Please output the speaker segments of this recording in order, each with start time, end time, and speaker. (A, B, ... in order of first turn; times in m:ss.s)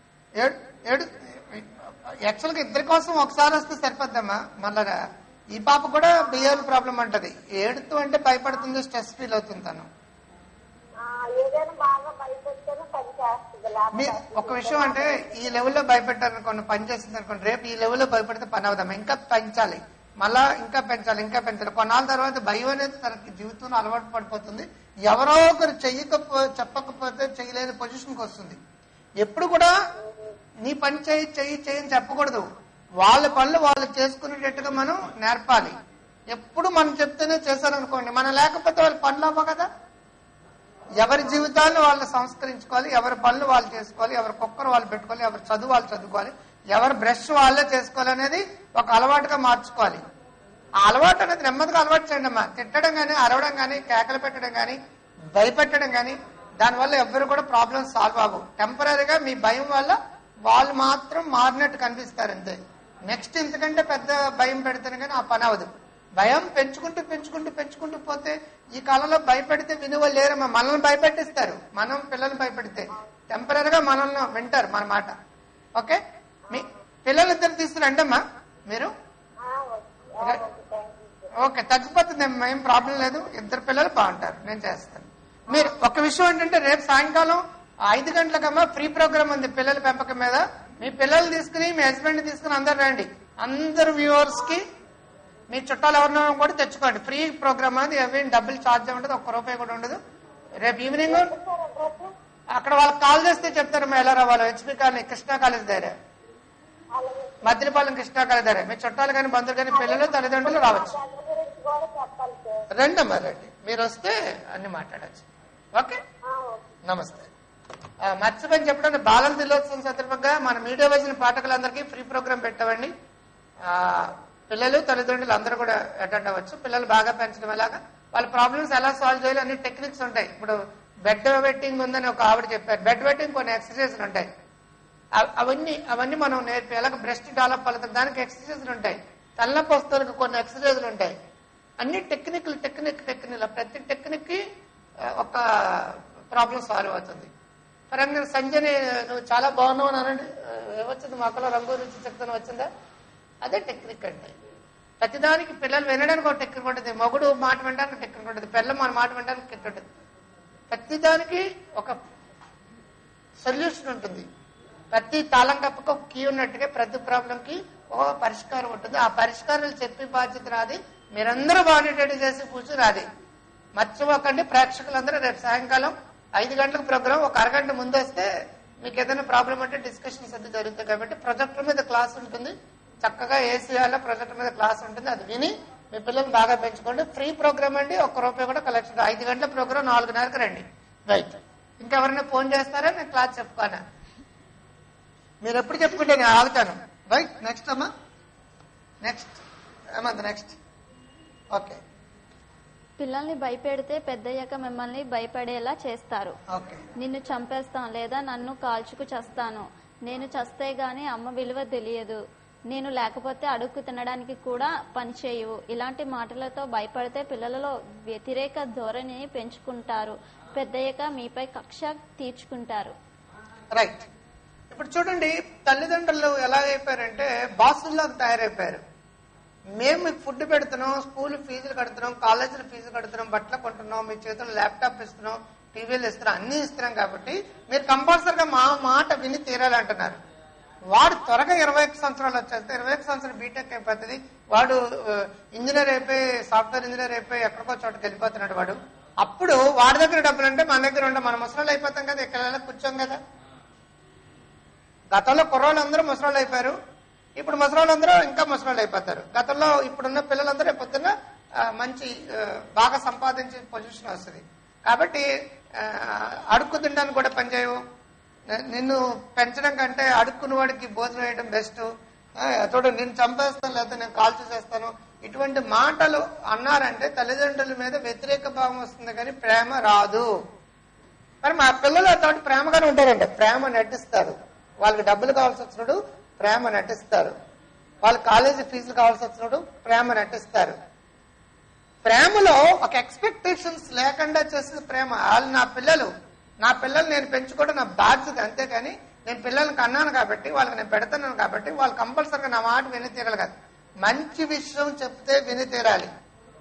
0:00.4-0:05.0 A
0:05.5-0:09.9 A
0:11.0-0:14.9 B
0:13.9-0:28.6 A
0:29.2-0:29.7 A
0:30.6-0:32.4 A
0:33.0-0:35.7 A
0:36.3-0:39.7 A
0:41.0-0:50.0 A
0:50.8-0:54.8 A
0:55.3-1:15.1 A
1:15.8-1:18.9 A
1:19.4-1:21.3 B
1:21.4-1:34.6 A
1:35.5-1:40.0 A
1:40.6-1:41.3 A
1:41.1-1:42.0 B
1:42.5-1:45.9 A
1:47.0-1:47.6 B
1:47.4-1:51.0 A
1:49.7-1:52.5 B
1:52.7-1:56.0 A
1:56.3-1:56.6 B
1:56.8-1:57.3 A
1:58.0-2:02.9 A
2:03.6-2:14.3 A
2:15.2-2:21.1 A
2:21.8-2:24.4 A
2:25.0-2:27.3 A
2:27.9-2:32.7 A
2:33.4-2:34.3 A
2:35.0-2:39.8 A
2:40.7-2:42.0 A
2:43.4-2:44.3 A
2:44.9-2:53.0 A
2:53.8-2:58.3 A
2:58.8-3:13.8 A
3:15.4-3:17.9 A
3:19.0-3:19.4 A
3:20.0-3:20.6 A
3:21.5-3:21.8 A
3:23.0-3:26.4 C
3:26.5-3:26.8 A
3:27.0-3:32.2 C
3:32.7-3:42.9 C
3:43.7-3:44.1 A
3:44.7-3:48.8 A
3:49.7-4:00.2 A
4:00.9-4:13.2 A
4:15.1-4:16.8 A
4:17.4-4:25.2 A
4:25.8-4:27.8 A
4:28.5-4:31.9 A
4:32.4-4:40.3 A
4:41.4-4:47.3 A
4:48.0-4:50.8 A
4:52.0-4:56.1 A
4:56.6-5:06.1 A